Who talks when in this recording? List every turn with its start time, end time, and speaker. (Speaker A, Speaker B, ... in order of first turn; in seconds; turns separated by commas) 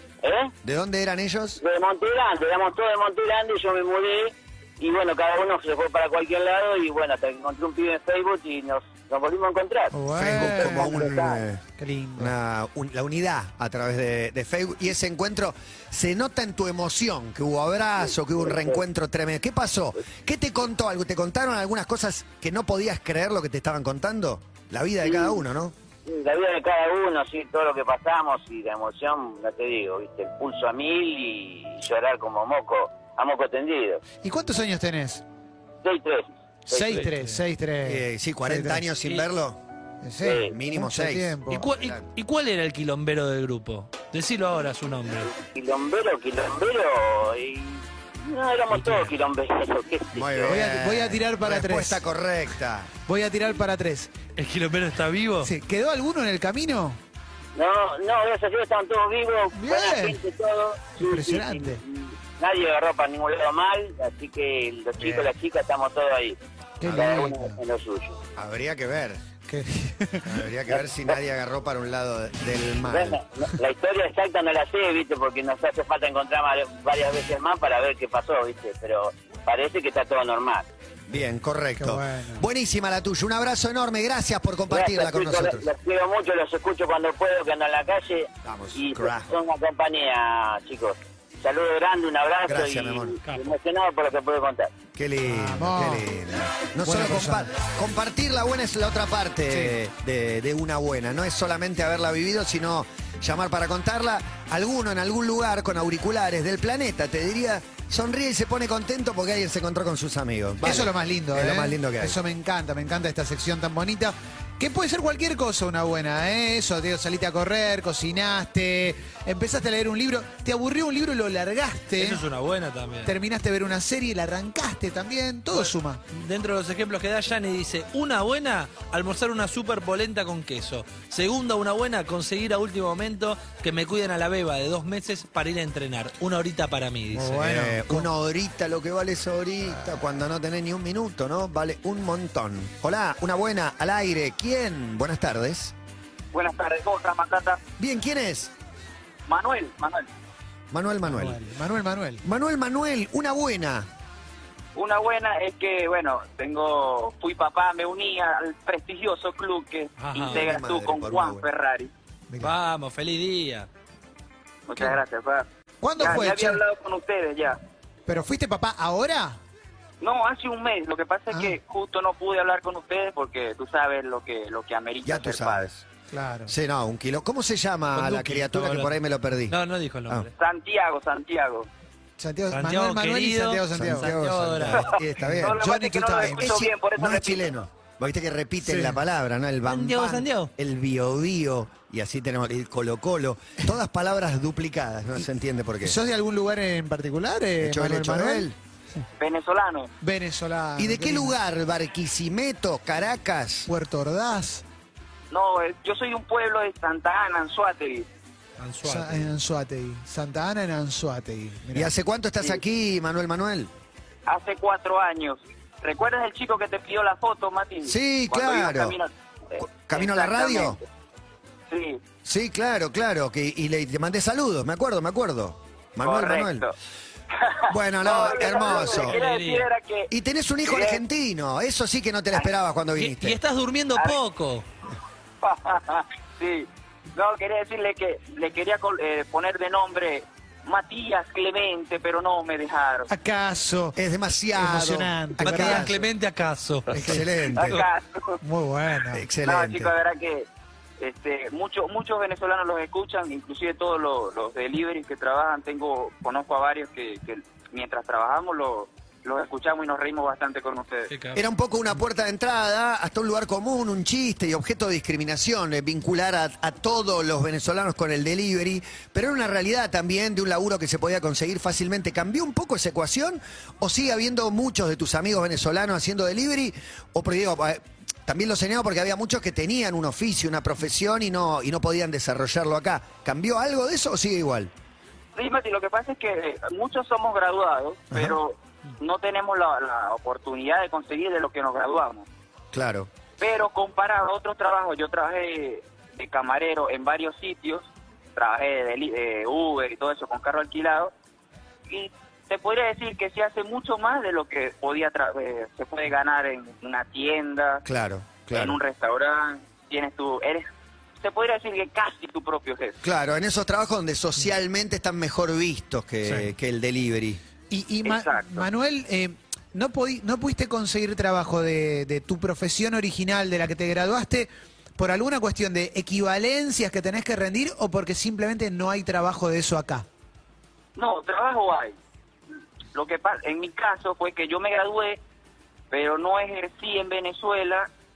Speaker A: 0.2-0.5, Speaker B: 0.6-1.6, Speaker A: 1.6-11.4, Speaker C: 9.9-11.1, Speaker B: 10.1-11.6, Speaker C: 11.8-12.3, Speaker B: 12.2-25.7, Speaker A: 18.4-18.8, Speaker A: 25.0-25.4, Speaker A: 26.1-34.0, Speaker C: 34.2-35.2, Speaker A: 35.8-37.0, Speaker C: 36.7-38.8, Speaker B: 37.8-39.6, Speaker C: 40.0-41.6, Speaker A: 40.2-40.5, Speaker B: 40.3-42.0, Speaker D: 41.5-45.3, Speaker A: 45.2-50.5, Speaker D: 48.7-49.1, Speaker B: 50.1-52.9, Speaker C: 50.5-52.0, Speaker C: 53.1-54.1, Speaker D: 54.4-55.5, Speaker C: 55.4-57.0, Speaker A: 57.5-68.2, Speaker C: 59.5-60.2, Speaker C: 61.0-61.8, Speaker C: 66.8-67.6, Speaker B: 68.4-69.2, Speaker C: 69.4-70.3, Speaker B: 70.2-73.2, Speaker A: 72.8-80.7, Speaker B: 81.1-85.7, Speaker C: 81.8-82.5, Speaker A: 84.7-94.7, Speaker B: 88.4-89.3, Speaker B: 92.5-93.2, Speaker D: 93.2-93.5, Speaker B: 94.9-112.2, Speaker C: 95.3-96.0, Speaker C: 96.8-97.5, Speaker C: 110.6-122.2, Speaker D: 122.0-123.1, Speaker C: 123.0-126.0, Speaker D: 125.5-137.6, Speaker C: 137.1-138.1, Speaker B: 137.4-145.7, Speaker E: 146.3-147.6, Speaker B: 147.8-148.5, Speaker E: 149.3-150.1, Speaker B: 150.7-151.4, Speaker C: 151.0-152.2, Speaker B: 152.2-153.9, Speaker E: 154.7-161.9, Speaker D: 160.0-160.5, Speaker B: 160.1-161.5, Speaker D: 162.4-163.7, Speaker E: 164.7-165.4, Speaker C: 165.8-166.6, Speaker E: 166.0-167.6, Speaker C: 168.1-169.4, Speaker E: 170.0-175.7, Speaker C: 171.3-171.6, Speaker B: 175.0-175.8, Speaker C: 176.1-176.5, Speaker B: 176.5-179.6, Speaker D: 177.9-178.9, Speaker D: 179.5-180.3, Speaker E: 180.3-181.7, Speaker C: 182.2-184.1, Speaker D: 182.5-184.9, Speaker B: 183.7-185.6, Speaker C: 185.2-186.7, Speaker E: 185.3-187.5, Speaker B: 186.2-195.9, Speaker C: 188.6-188.9, Speaker D: 189.7-190.5, Speaker C: 195.8-199.0, Speaker B: 197.6-198.5, Speaker E: 199.2-199.9, Speaker C: 200.0-201.3, Speaker B: 200.8-203.7, Speaker C: 203.7-204.6, Speaker E: 205.3-208.1, Speaker D: 208.6-209.3, Speaker C: 208.8-211.9, Speaker B: 211.7-213.7, Speaker E: 214.2-220.8, Speaker B: 217.8-218.9, Speaker B: 219.6-220.8, Speaker E: 221.7-222.0, Speaker B: 222.2-226.6, Speaker E: 226.0-226.7, Speaker E: 227.5-230.1, Speaker B: 227.7-229.2, Speaker D: 228.1-229.7, Speaker B: 230.1-233.4, Speaker E: 230.6-231.0, Speaker D: 233.0-234.6, Speaker E: 233.9-234.2, Speaker E: 235.4-243.1, Speaker C: 243.1-244.0, Speaker B: 243.9-246.0, Speaker C: 244.5-246.0, Speaker D: 245.4-247.8, Speaker C: 246.9-247.2, Speaker B: 246.9-247.8, Speaker E: 247.6-248.4, Speaker C: 248.4-249.3, Speaker B: 249.1-249.9, Speaker E: 249.4-250.5, Speaker E: 251.0-261.1, Speaker D: 261.1-261.4, Speaker B: 261.3-284.7, Speaker E: 285.4-292.2, Speaker B: 288.1-288.4, Speaker B: 292.7-293.1, Speaker E: 293.4-301.1, Speaker E: 301.9-307.8, Speaker B: 307.8-308.8, Speaker E: 308.5-310.7, Speaker E: 311.2-313.0, Speaker B: 313.0-317.4, Speaker C: 317.7-330.1, Speaker E: 318.0-318.7, Speaker E: 330.9-331.9, Speaker E: 332.9-335.2, Speaker E: 335.9-337.9